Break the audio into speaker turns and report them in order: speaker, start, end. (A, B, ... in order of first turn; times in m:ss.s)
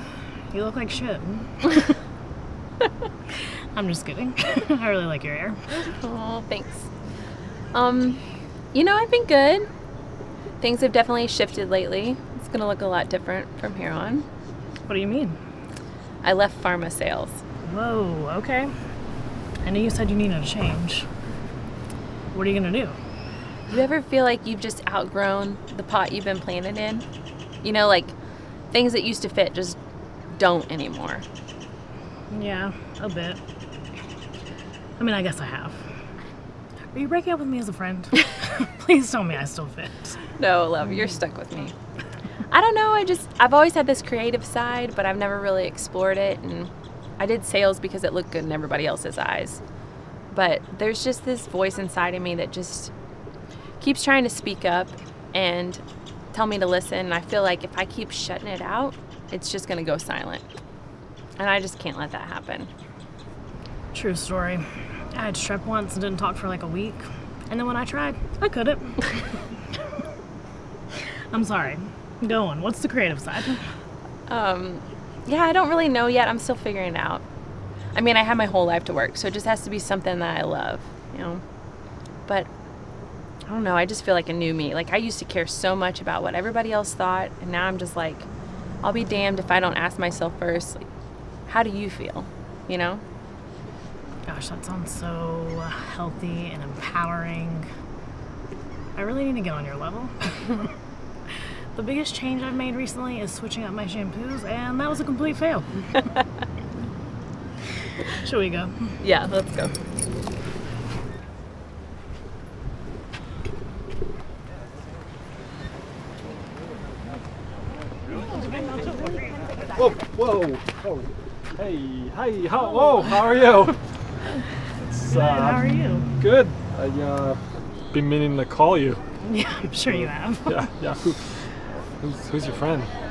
0:00.5-0:01.9 A
0:03.7-0:05.6 A
0:05.8-0:06.9 B
0:07.7-0:09.7 B
0:10.6-0:14.3 B
0:14.9-0:15.4 A
0:16.2-0:17.4 B
0:17.6-0:18.7 A
0:19.6-0:21.1 A
0:22.3-0:23.0 A
0:23.7-0:27.0 B
0:27.6-0:28.1 B
0:28.7-0:29.8 B
0:30.4-0:31.2 B
0:32.3-0:33.4 A
0:35.0-0:35.8 A
0:36.9-0:40.2 A
0:40.4-0:41.7 B
0:42.5-0:49.6 B
0:50.3-0:52.9 B
0:53.8-0:55.8 B
0:56.3-1:00.4 B
1:01.4-1:02.7 B
1:03.9-1:09.2 A
1:11.3-1:13.6 A
1:14.3-1:17.2 B
1:17.9-1:21.4 B
1:23.5-1:28.3 B
1:28.8-1:30.8 B
1:31.5-1:33.0 B
1:34.3-1:37.7 A
1:39.0-1:40.7 A
1:41.7-1:46.0 A
1:48.2-1:49.0 A
1:49.0-1:49.7 B
1:59.8-2:03.8 C
2:04.8-2:05.7 C
2:05.1-2:06.1 A
2:06.2-2:07.4 C
2:07.9-2:09.0 C
2:09.2-2:10.7 A
2:09.9-2:11.2 C
2:12.0-2:12.9 C